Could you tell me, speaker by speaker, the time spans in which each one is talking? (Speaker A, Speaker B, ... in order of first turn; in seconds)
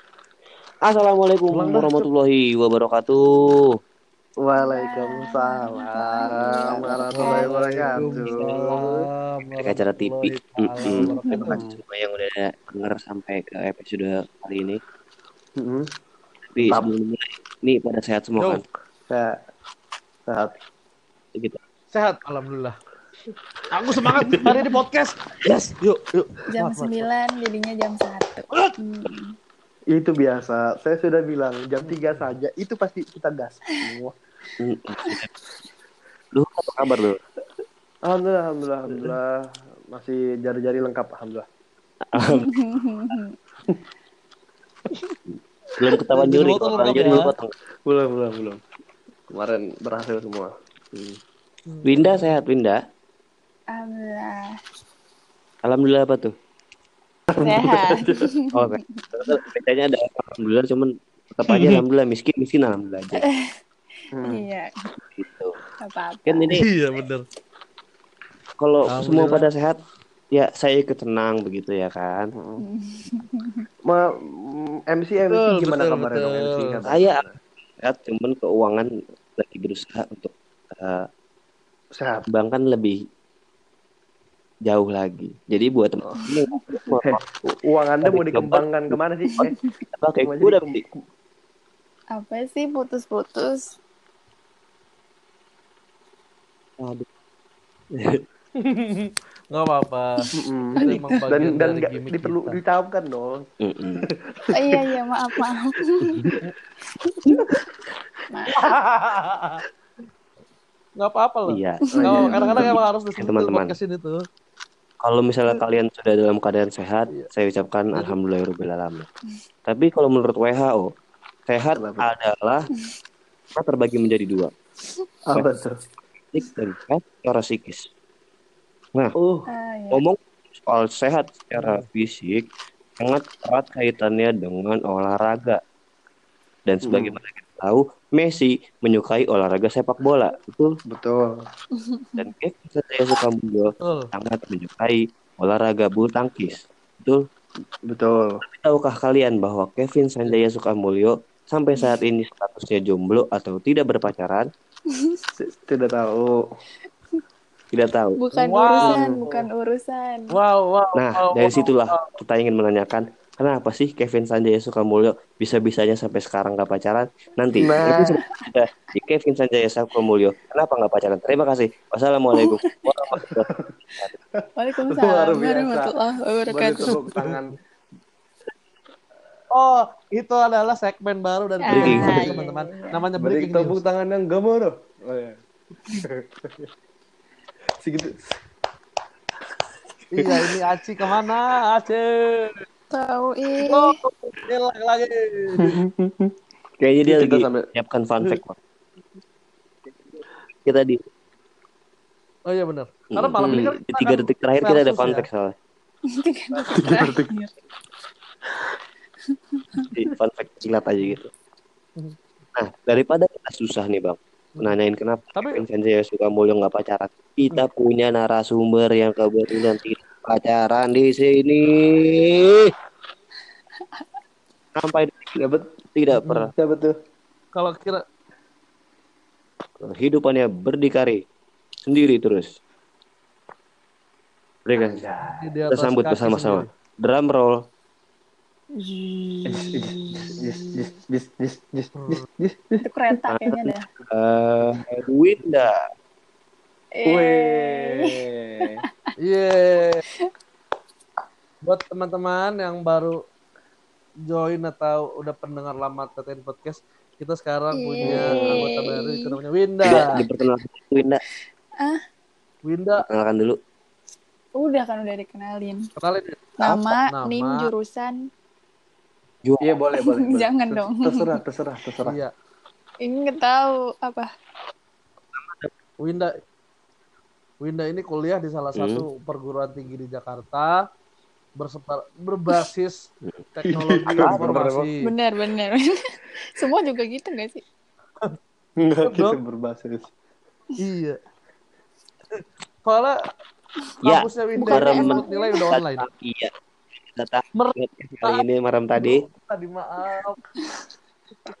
Speaker A: 0.8-3.8, 8.6-8.8, 9.6-14.8, 16.5-18.6, 21.3-21.6, 34.6-35.3, 36.3-37.2, 42.1-42.5, 45.8-47.5, 51.8-52.8, 55.6-56.3, 58.5-63.2, 65.2-65.6, 66.2-66.7, 68.6-69.8, 70.3-72.3, 76.8-77.2, 77.8-81.1, 82.3-83.0, 84.7-87.3, 88.0-90.8, 96.8-97.0, 97.9-98.2, 103.6-104.1, 111.5-113.7, 115.0-119.1, 119.7-120.9, 121.5-122.7, 123.5-124.5, 126.3-127.9, 129.9-132.4, 133.0-135.6, 136.7-140.7, 142.2-147.2, 148.6-154.5, 157.7-158.2, 160.9-174.1, 181.7-182.3, 196.8-198.6, 200.7-201.0, 203.1-205.5, 209.9-211.3, 212.6-222.7, 224.8-226.5, 229.8-231.2, 231.8-232.5, 234.7-235.1, 235.7-237.6, 243.3-245.8, 259.8-261.2, 263.0-263.6, 269.4-269.7, 278.8-279.0, 284.2-284.6, 294.0-296.5, 297.1-299.2
Speaker B: 1.5-2.1, 7.0-11.6, 21.9-22.8, 23.7-27.1, 31.9-32.2, 46.1-47.3, 51.7-52.3, 61.5-61.8, 66.5-67.2, 68.9-69.5, 75.2-76.8, 98.6-100.3, 100.8-102.6, 108.5-109.6, 111.0-114.2, 131.6-131.9, 143.8-144.1, 158.3-159.0, 160.3-162.1, 176.8-177.4, 179.5-183.8, 190.1-192.7, 193.6-195.8, 202.5-205.3, 215.3-215.6, 226.2-226.5, 227.5-228.0, 235.2-236.7, 241.9-242.2, 249.2-250.0, 251.6-253.2, 254.3-260.1, 262.6-263.0, 266.0-266.4, 267.0-267.7, 272.0-272.3, 276.0-276.4, 277.6-280.8, 281.6-283.0, 283.5-285.1, 289.0-289.4, 290.8-291.2, 292.4-293.2, 294.0-296.1, 297.6-298.4, 298.9-300.4
Speaker C: 4.4-9.0, 10.9-11.8, 15.6-15.9, 19.1-19.4, 20.3-20.6, 24.3-24.6, 29.9-34.1, 38.0-41.5, 47.9-48.6, 49.3-50.5, 57.3-58.3, 64.1-64.4, 73.8-77.3, 81.9-82.2, 87.0-89.5, 90.2-90.8, 100.3-103.5, 104.0-104.9, 111.9-112.7, 121.7-122.0, 125.2-125.7, 129.2-129.5, 136.8-137.2, 140.9-141.3, 147.9-148.4, 155.4-156.4, 158.8-159.4, 167.6-168.2, 173.3-173.7, 174.3-175.9, 176.5-177.5, 183.2-185.4, 186.0-186.7, 187.8-188.3, 190.2-190.5, 195.6-196.3, 197.0-197.7, 203.4-203.7, 206.6-207.3, 225.4-225.7, 226.5-226.9, 234.8-235.5, 239.4-242.8, 247.0-248.8, 258.0-258.6, 269.6-272.1, 283.7-284.9, 288.8-290.1
Speaker D: 4.5-8.2, 11.0-11.6, 26.5-29.3, 42.2-43.3, 53.7-54.6, 57.4-59.4, 63.1-63.6, 64.2-64.9, 65.8-66.6, 72.6-73.7, 86.2-86.6, 92.1-93.7, 100.8-101.2, 104.5-106.4, 107.2-107.6, 108.3-108.8, 111.8-112.7, 129.5-130.0, 141.7-142.3, 154.9-155.2, 158.1-160.4, 168.1-168.4, 172.3-172.8, 174.6-176.9, 181.6-183.1, 192.9-194.0, 206.1-207.5, 209.3-209.9, 223.8-224.1, 242.8-243.9, 246.9-249.1, 257.7-259.4, 264.6-265.9, 266.6-268.2, 270.0-271.4, 273.0-274.3, 285.0-287.6, 294.6-295.8